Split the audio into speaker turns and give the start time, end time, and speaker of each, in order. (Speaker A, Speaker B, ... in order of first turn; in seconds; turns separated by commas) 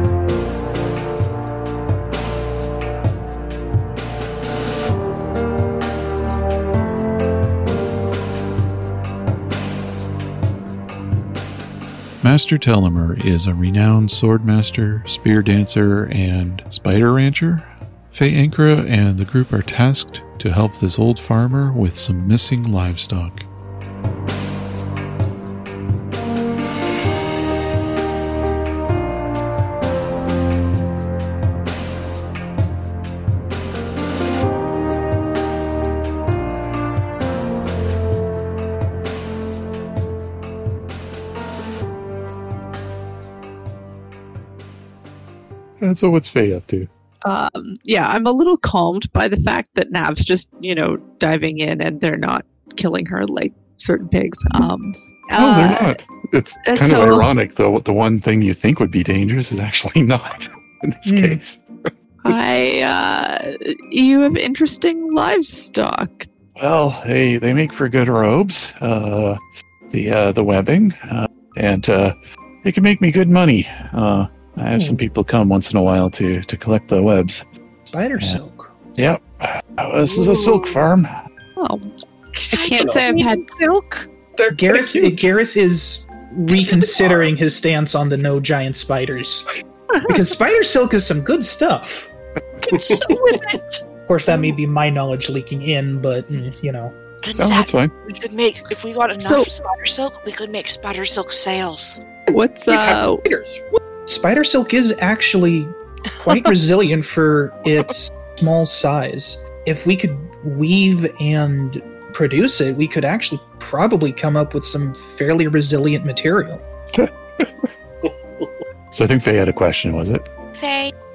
Speaker A: 12.2-23.5, Speaker A: 45.8-46.9, Speaker B: 47.2-56.0, Speaker A: 55.4-61.6, Speaker B: 56.6-57.3, Speaker C: 61.1-61.4, Speaker B: 62.2-66.3, Speaker A: 66.6-69.4, Speaker A: 69.9-77.4, Speaker C: 77.9-78.7, Speaker A: 78.2-78.4, Speaker A: 79.0-81.2, Speaker B: 81.6-83.5, Speaker D: 82.5-84.1, Speaker E: 82.8-83.1, Speaker E: 84.4-85.3, Speaker C: 84.5-89.5, Speaker E: 87.0-87.3, Speaker B: 89.9-90.2, Speaker C: 90.0-92.1, Speaker D: 92.6-93.8, Speaker E: 92.7-93.4, Speaker C: 94.1-97.0, Speaker D: 97.2-102.0, Speaker A: 97.4-97.9, Speaker B: 99.2-99.5, Speaker E: 102.3-103.8, Speaker B: 102.3-103.2, Speaker C: 104.1-116.6, Speaker A: 116.9-117.5, Speaker E: 118.0-118.5, Speaker A: 118.9-120.3, Speaker D: 120.6-120.9